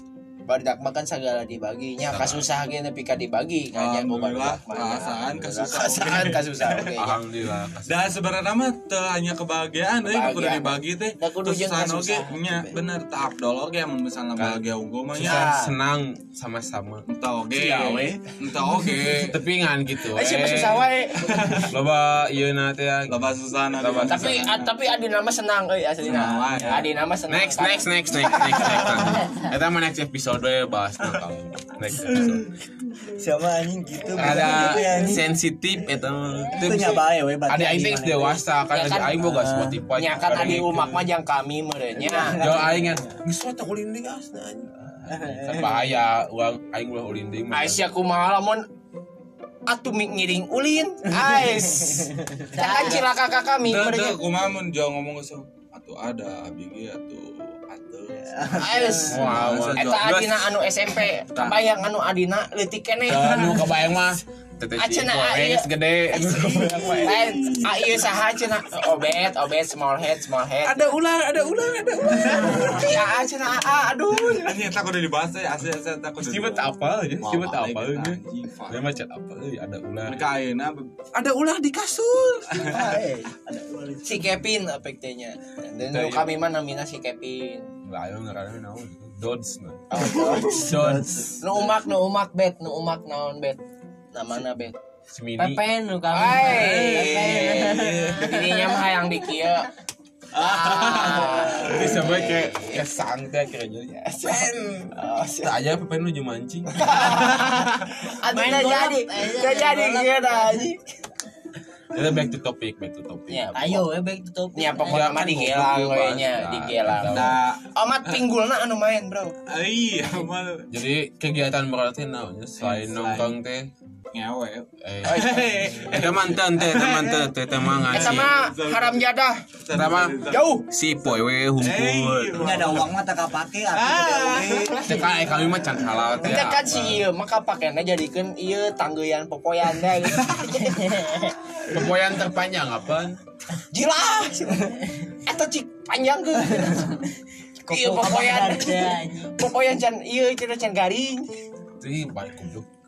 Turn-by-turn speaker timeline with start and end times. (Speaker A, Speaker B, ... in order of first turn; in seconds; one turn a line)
Speaker A: 0.5-7.2
Speaker B: 2.1-2.4
Speaker C: 3.7-6.9
Speaker B: 6.9-8.1
Speaker C: 7.8-15.5
Speaker A: 10.0-12.7
Speaker B: 14.4-14.6
Speaker B: 15.1-18.2
Speaker A: 15.2-15.7
Speaker C: 17.1-19.4
Speaker D: 17.7-18.1
Speaker B: 19.1-20.9
Speaker A: 20.1-21.7
Speaker C: 21.2-21.7
Speaker B: 21.7-23.2
Speaker C: 23.1-24.7
Speaker B: 23.7-24.5
Speaker A: 24.1-28.6
Speaker C: 26.0-26.9
Speaker B: 27.3-32.5
Speaker C: 32.1-32.5
Speaker D: 33.1-35.3
Speaker B: 34.1-41.1
Speaker D: 36.6-38.4
Speaker A: 38.7-39.3
Speaker D: 39.2-39.8
Speaker A: 39.9-42.5
Speaker D: 42.0-43.0
Speaker B: 42.3-47.8
Speaker D: 45.1-45.8
Speaker A: 47.5-48.6
Speaker A: 49.7-54.2
Speaker E: 52.5-53.1
Speaker C: 53.6-58.4
Speaker D: 58.3-59.4
Speaker A: 58.5-63.7
Speaker B: 59.1-60.5
Speaker C: 59.2-60.2
Speaker B: 63.0-67.6
Speaker A: 64.8-65.7
Speaker A: 66.2-70.9
Speaker C: 66.5-67.6
Speaker B: 70.6-73.1
Speaker A: 72.6-74.6
Speaker C: 74.2-78.8
Speaker B: 76.2-80.2
Speaker C: 80.0-80.9
Speaker B: 81.1-82.7
Speaker D: 82.5-84.3
Speaker A: 84.0-87.7
Speaker B: 85.9-86.3
Speaker B: 87.8-91.4
Speaker A: 89.9-90.7
Speaker D: 90.0-91.4
Speaker A: 91.4-93.6
Speaker A: 94.1-94.8
Speaker B: 95.1-95.6
Speaker E: 95.4-98.8
Speaker A: 96.1-99.7
Speaker C: 97.0-98.2
Speaker A: 100.3-102.8
Speaker B: 100.3-107.4
Speaker E: 100.8-101.3
Speaker A: 103.9-105.6
Speaker A: 106.7-110.8
Speaker E: 108.3-110.6
Speaker B: 111.9-113.4
Speaker A: 113.3-113.9
Speaker E: 113.5-115.2
Speaker A: 114.5-119.3
Speaker B: 114.8-117.4
Speaker C: 117.0-118.2
Speaker C: 119.5-120.7
Speaker B: 120.7-123.7
Speaker C: 122.6-123.3
Speaker C: 124.1-129.0
Speaker B: 124.8-128.3
Speaker A: 125.1-125.4
Speaker A: 127.9-129.4
Speaker C: 129.6-130.4
Speaker B: 129.7-132.9
Speaker A: 130.3-130.7
Speaker C: 131.6-132.9
Speaker D: 132.4-135.0
Speaker C: 133.7-134.8
Speaker E: 134.8-135.3
Speaker B: 134.8-137.1
Speaker A: 136.2-141.2
Speaker E: 140.6-141.3
Speaker B: 141.7-143.2
Speaker A: 143.7-147.0
Speaker A: 147.7-151.3
Speaker E: 147.7-149.4
Speaker B: 151.8-152.7